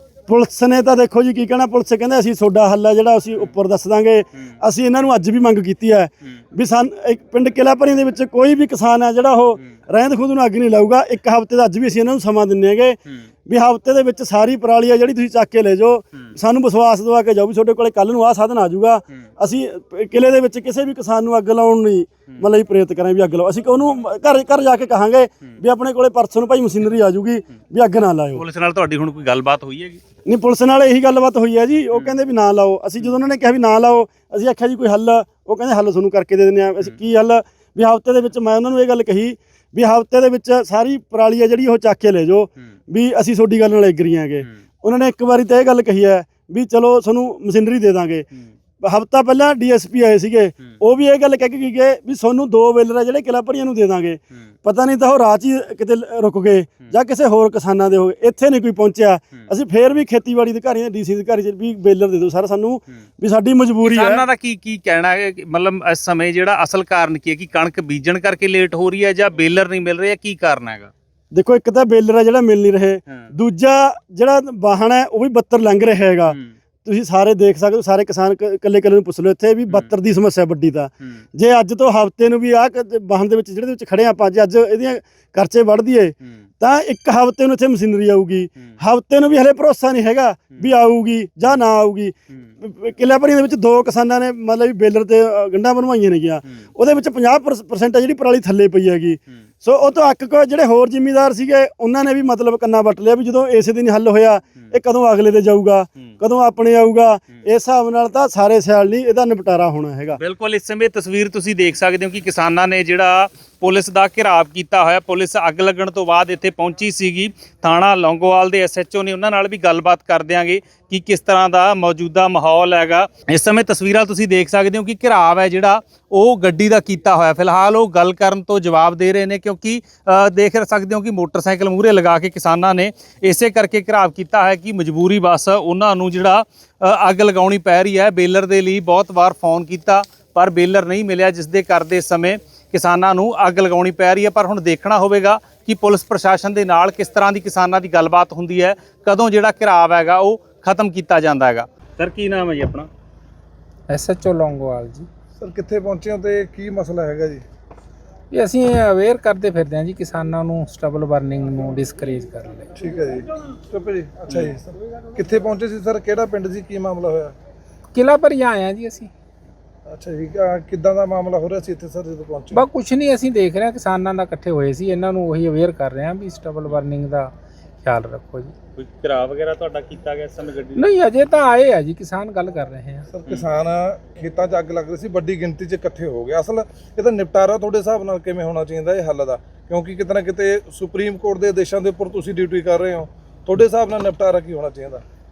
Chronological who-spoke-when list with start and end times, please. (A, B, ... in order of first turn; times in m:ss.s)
0:00.3-0:28.4 A
0:28.3-0:30.0 B
0:30.2-0:48.2 A
0:48.8-1:04.2 A
1:03.8-1:10.9 B
1:11.3-1:50.2 A
1:50.2-2:32.9 B
2:33.9-2:35.1 C
2:35.4-2:37.4 D
2:38.3-2:42.7 C
2:42.8-2:47.3 D
2:47.9-2:49.1 C
2:49.9-2:52.6 D
2:52.5-2:58.5 C
2:58.8-3:00.8 B
3:00.8-3:03.1 C
3:03.1-3:15.0 D